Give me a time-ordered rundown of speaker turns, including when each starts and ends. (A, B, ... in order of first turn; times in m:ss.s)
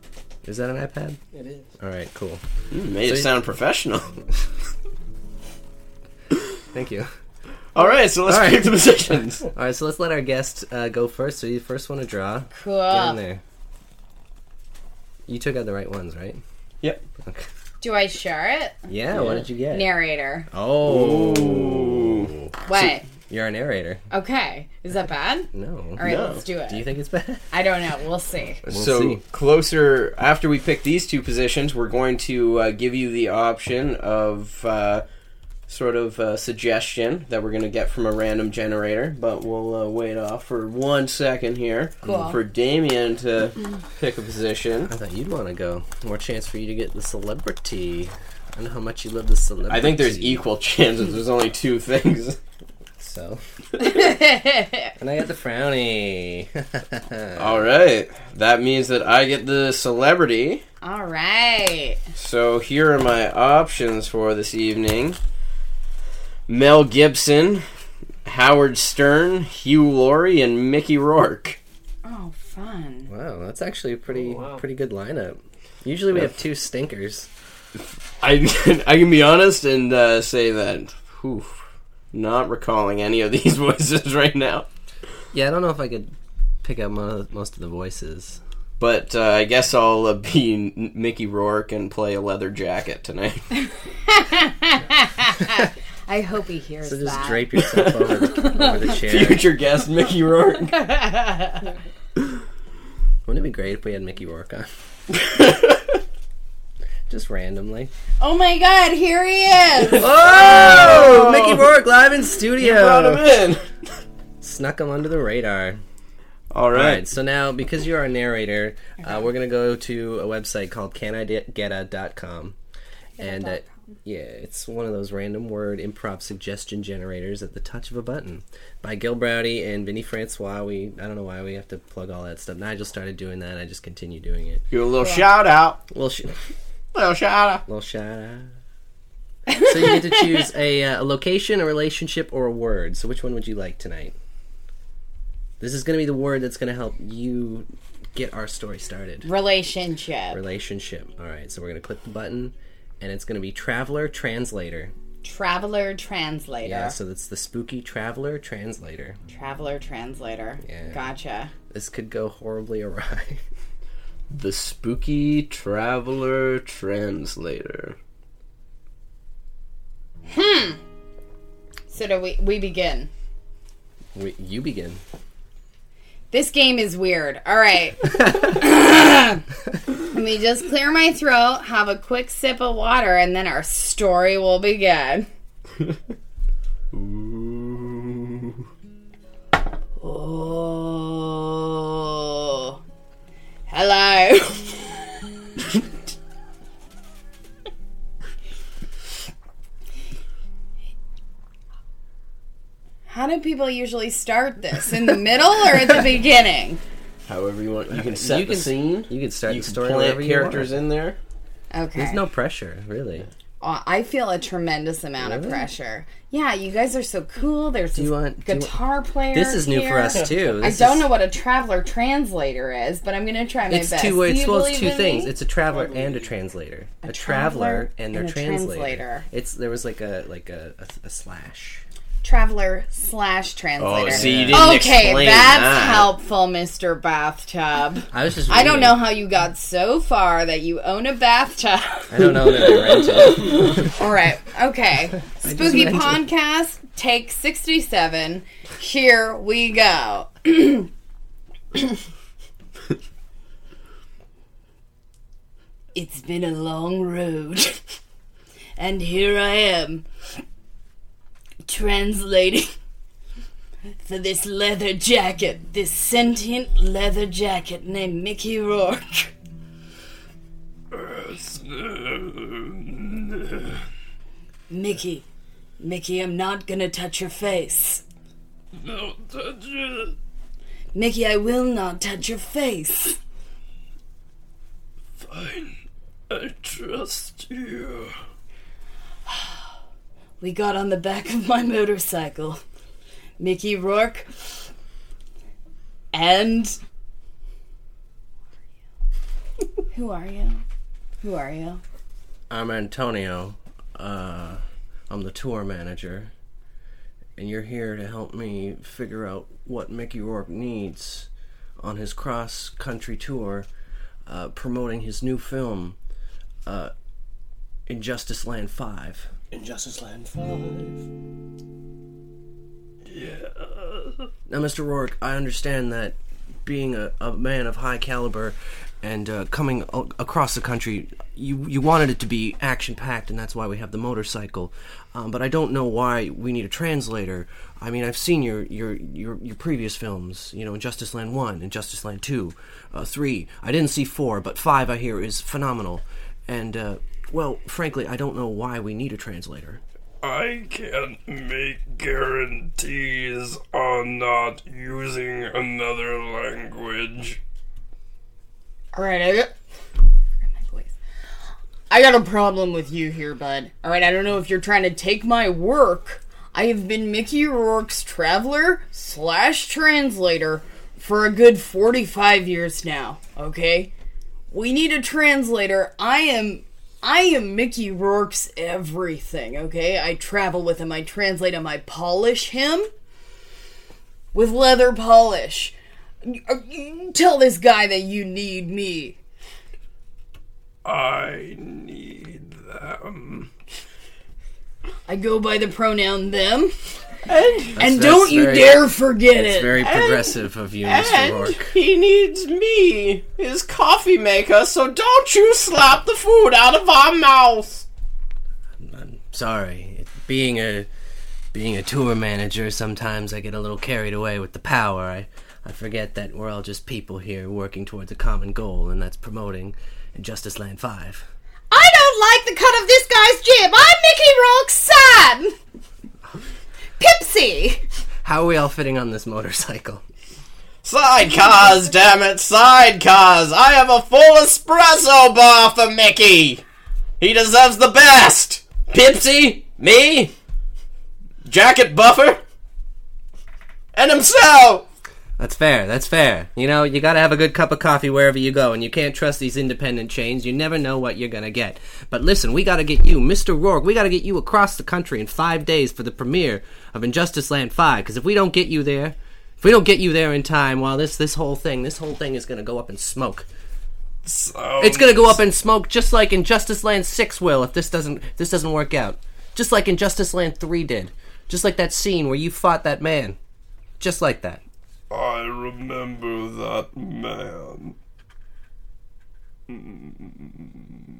0:00.4-0:01.2 A
0:01.3-0:01.7 B
0:01.8-0:02.4 A
0:02.7-0:04.1 C
0:03.0-0:03.3 A
0:06.7-0:07.1 A
0:07.7-0:09.4 C
0:08.2-0:08.9 A
0:09.4-0:13.4 A
0:12.5-0:13.2 D
0:15.3-0:16.4 A
0:17.2-0:17.5 A
0:17.8-0:18.9 D
0:18.9-0:19.9 A
0:19.1-0:19.4 C
0:19.7-0:20.5 D
0:20.5-0:22.5 A
0:20.8-0:22.3 C
0:22.6-0:23.1 D
0:23.3-0:24.0 A
0:24.1-0:26.8 D
0:25.5-0:26.0 A
0:26.0-0:26.4 C
0:26.7-0:27.4 A
0:27.5-0:28.6 D
0:28.6-0:29.2 A
0:28.6-0:35.0 C
0:35.7-0:44.9 C
0:42.0-0:42.4 D
0:42.0-0:42.3 A
0:44.9-0:50.4 A
0:49.7-0:52.4 C
0:53.0-0:53.4 A
0:53.8-0:54.9 D
0:55.0-0:57.6 A
0:57.4-1:00.6 C
1:00.8-1:02.0 D
1:02.2-1:05.2 C
1:06.5-1:07.6 C
1:08.2-1:11.6 C
1:12.0-1:13.1 D
1:13.1-1:17.3 A
1:14.1-1:14.6 B
1:17.8-1:24.7 C
1:25.3-1:28.4 A
1:28.8-1:33.4 C
1:34.0-1:38.8 D
1:36.8-1:39.4 A
1:37.7-1:38.0 C
1:38.9-1:40.7 C
1:40.6-1:41.7 D
1:43.2-1:44.7 A
1:45.1-1:46.0 C
1:47.1-1:47.9 A
1:48.2-1:51.1 D
1:49.9-1:51.8 C
1:49.9-1:53.2 A
1:52.6-1:53.6 C
1:54.4-1:55.8 A
1:56.5-1:57.0 C
1:56.7-2:02.6 A
2:03.2-2:14.6 A
2:03.2-2:03.5 D
2:14.7-2:15.8 C
2:15.0-2:15.3 D
2:15.9-2:16.3 A
2:16.9-2:17.6 C
2:17.6-2:18.5 A
2:19.5-2:20.4 D
2:19.5-2:24.1 A
2:25.6-2:29.3 A
2:29.2-2:30.4 D
2:30.3-2:34.9 A
2:35.2-2:37.0 D
2:36.6-2:39.2 A
2:39.3-2:41.5 D
2:40.6-2:41.0 A
2:41.7-2:43.4 A
2:44.3-2:48.0 C
2:50.3-2:50.8 D
2:51.9-2:53.1 D
2:54.1-2:55.0 A
2:56.3-2:59.4 D
3:00.0-3:05.3 D
3:06.9-3:08.6 C
3:10.0-3:12.8 D
3:13.7-3:15.1 D
3:23.1-3:26.8 D
3:27.3-3:31.2 C
3:27.9-3:30.7 A
3:31.7-3:32.2 D
3:31.9-3:33.3 A
3:33.6-3:45.3 D
3:35.2-3:35.7 A
3:37.9-3:38.8 A
3:39.3-3:41.1 A
3:40.1-3:40.4 B
3:43.7-3:51.8 A
3:45.7-3:46.3 B
3:47.0-3:49.2 D
3:52.2-4:10.9 D
3:53.8-3:56.1 C
3:54.0-3:54.7 A
3:58.1-3:59.0 A
4:02.1-4:03.9 A
4:05.3-4:06.2 A
4:15.9-4:17.8 D
4:18.8-4:20.0 D
4:21.6-4:22.7 D
4:24.0-4:29.3 D
4:30.9-4:33.8 E
4:34.7-4:35.2 D
4:35.8-4:38.0 D
4:38.7-4:40.2 E
4:40.9-4:43.2 D
4:45.2-4:45.7 E
4:46.3-4:48.1 E
4:50.4-4:52.6 D
4:53.4-4:54.3 D
4:56.1-4:56.8 D
4:59.9-5:00.6 D
5:01.2-5:01.8 D
5:02.5-5:06.3 A
5:07.4-5:11.3 A
5:11.8-5:13.7 A
5:14.3-5:16.0 A
5:16.6-5:16.9 A
5:17.9-5:19.3 A
5:19.5-5:21.0 B
5:23.1-5:24.3 E
5:24.5-5:49.8 A
5:50.2-5:57.4 E
5:58.9-5:59.5 D
6:00.5-6:00.9 D
6:01.9-6:13.9 D
6:14.5-6:22.9 D
6:24.3-6:29.2 D
6:30.8-6:33.5 E
6:35.1-6:36.7 D
6:37.3-6:37.8 C
6:37.8-6:41.7 A
6:37.8-6:39.9 D
6:39.8-6:47.8 C
6:48.8-6:50.9 A
6:51.5-7:01.2 A
7:01.7-7:05.5 D
7:07.0-7:07.8 D
7:08.2-7:10.0 A
7:10.8-7:16.6 C
7:17.2-7:20.3 C
7:21.4-7:22.4 C
7:23.9-7:24.8 C
7:25.4-7:43.5 A
7:44.2-7:45.4 E
7:44.8-7:53.4 A
7:54.0-7:54.6 A
7:55.1-7:58.0 E
7:59.7-8:00.6 E